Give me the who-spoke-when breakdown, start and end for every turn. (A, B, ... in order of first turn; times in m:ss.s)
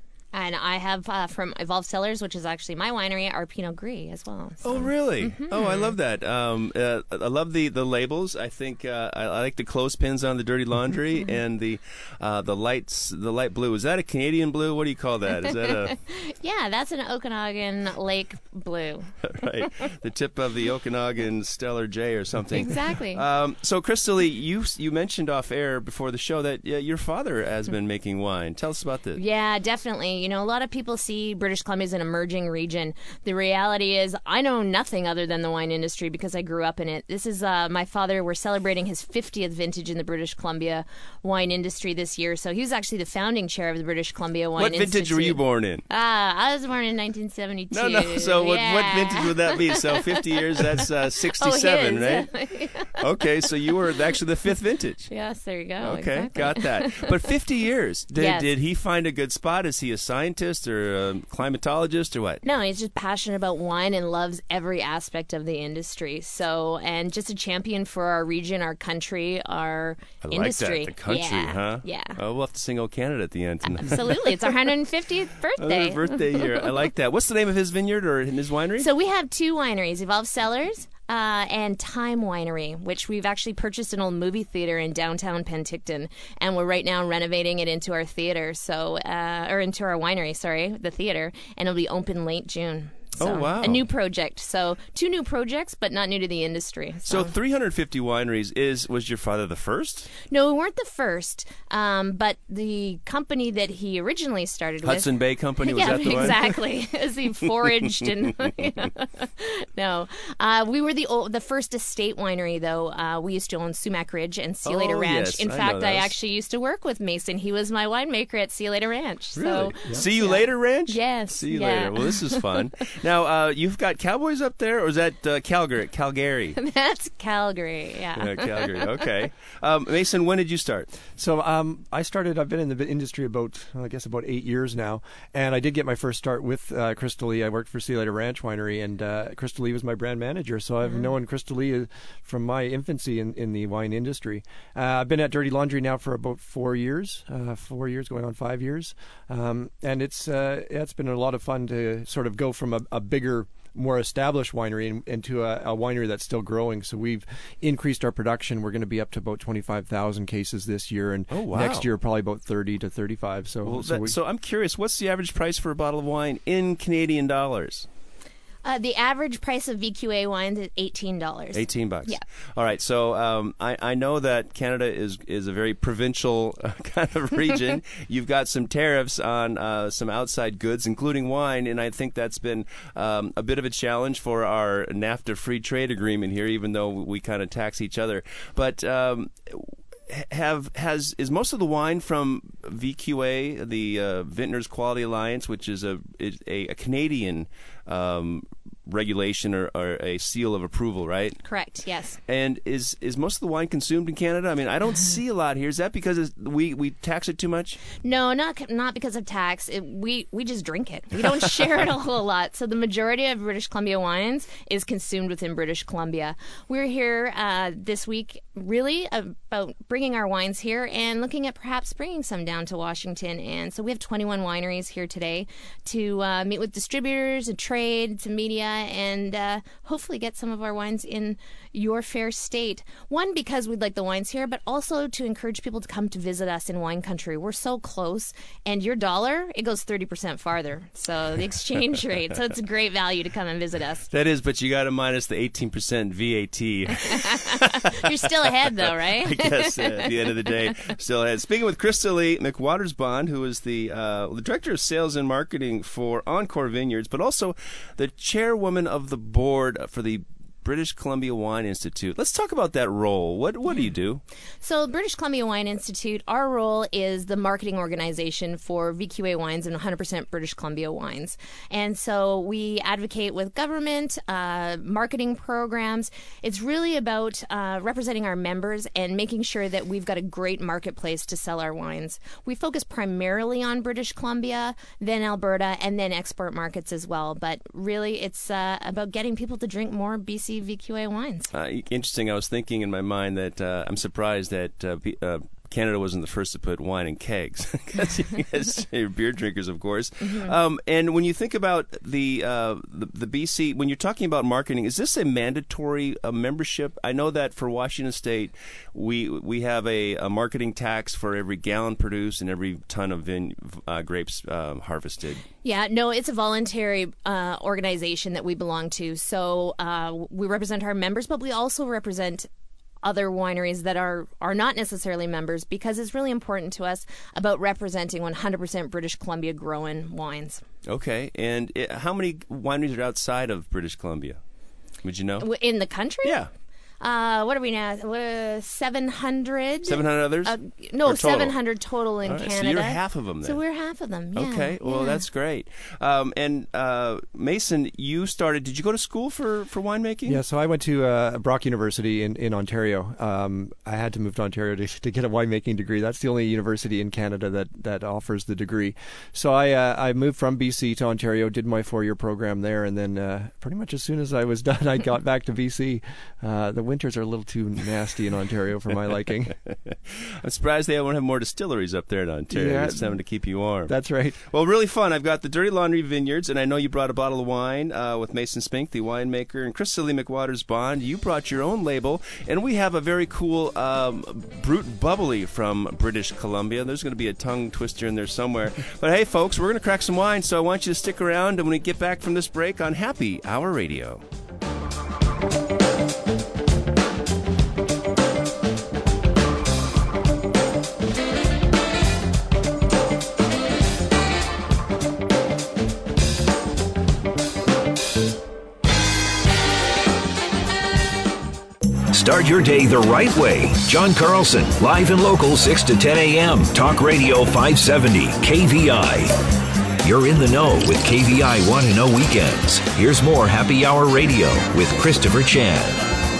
0:00.3-0:05.9 A
0:04.6-0:16.0 B
0:15.4-0:19.1 A
0:19.2-0:29.2 B
0:22.5-0:23.2 A
0:29.1-0:50.8 A
0:44.6-0:45.8 B
0:47.7-0:52.3 B
0:51.4-0:53.0 A
0:53.0-0:55.1 B
0:55.1-0:57.1 A
0:55.8-1:02.4 B
0:58.1-0:58.5 A
1:02.4-1:12.2 A
1:10.2-1:14.5 B
1:13.6-1:16.2 A
1:15.6-1:18.9 B
1:18.8-1:37.3 A
1:33.2-1:33.8 B
1:37.0-1:40.1 B
1:40.2-1:45.1 A
1:44.8-1:46.5 B
1:45.6-2:02.6 A
1:54.6-1:56.1 B
1:59.3-2:06.6 B
2:06.6-2:09.0 A
2:08.2-2:10.9 B
2:11.2-2:44.2 C
2:20.8-2:21.1 A
2:41.3-2:41.9 B
2:43.6-2:47.9 B
2:48.6-2:52.2 A
2:51.5-3:21.4 B
3:21.4-3:22.2 A
3:22.3-3:27.8 B
3:28.0-4:04.1 A
4:04.1-4:24.2 B
4:07.0-4:10.8 A
4:24.6-4:51.5 A
4:51.5-5:15.4 B
5:00.2-5:00.5 A
5:15.6-5:22.5 A
5:23.0-5:30.6 A
5:30.8-5:34.4 B
5:35.0-5:35.5 B
5:35.4-5:36.4 A
5:36.2-5:36.5 B
5:37.0-5:45.2 A
5:39.8-5:41.6 B
5:42.2-5:43.6 B
5:44.3-5:50.4 B
5:50.2-6:09.6 C
6:09.7-6:13.9 B
6:12.5-6:13.1 C
6:13.9-6:14.4 C
6:14.5-6:34.2 B
6:52.1-6:59.3 D
7:00.0-7:06.0 D